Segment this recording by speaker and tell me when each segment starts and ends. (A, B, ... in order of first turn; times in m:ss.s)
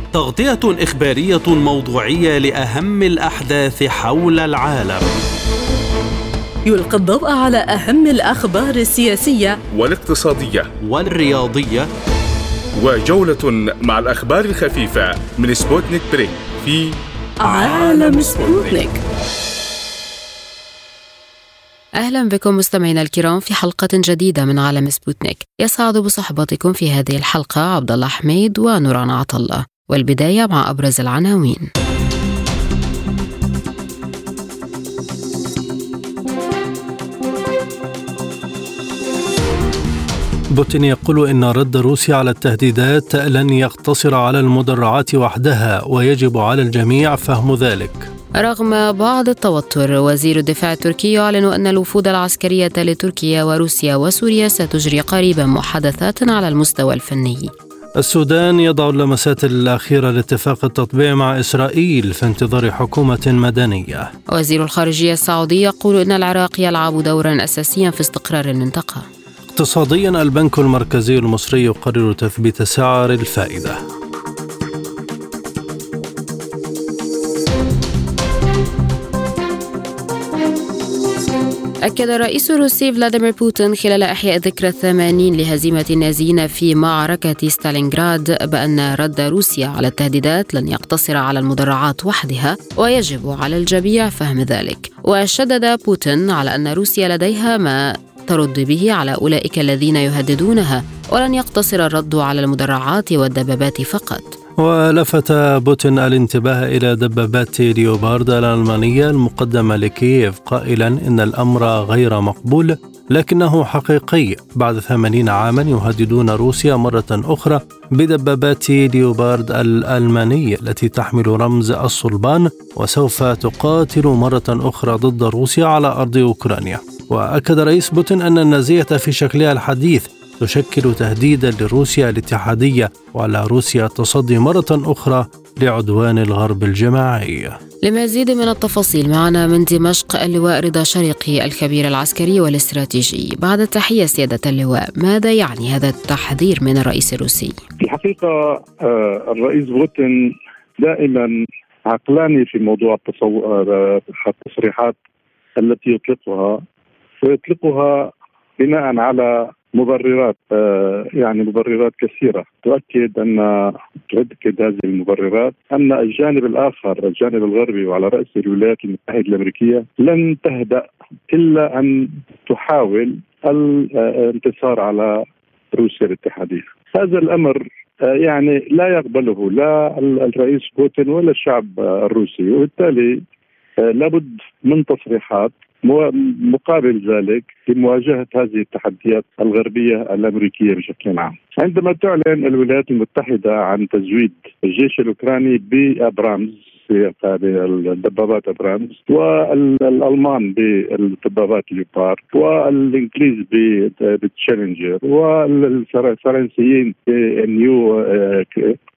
0:00.1-0:05.1 A
0:06.6-0:09.6 B
0:09.7-0:10.7 C
0:10.8-0:11.9 A
0:12.8-0:18.8 C
0:17.4-0:19.0 B
0:22.0-0:31.6 D
0:40.5-0:48.1 E
0:48.4-0:57.5 D
0:58.0-1:04.1 E
1:04.3-1:09.0 D
1:09.5-1:13.8 E
1:21.8-1:44.3 D
1:44.6-2:17.6 E
2:17.8-2:27.6 D
2:27.8-2:31.3 F
2:31.9-2:34.9 F
2:35.6-2:36.6 F
2:37.2-2:38.1 F
2:38.6-2:43.5 F
2:44.1-2:55.1 F
2:55.7-2:57.6 F
2:58.2-3:03.2 F
3:03.8-3:28.8 F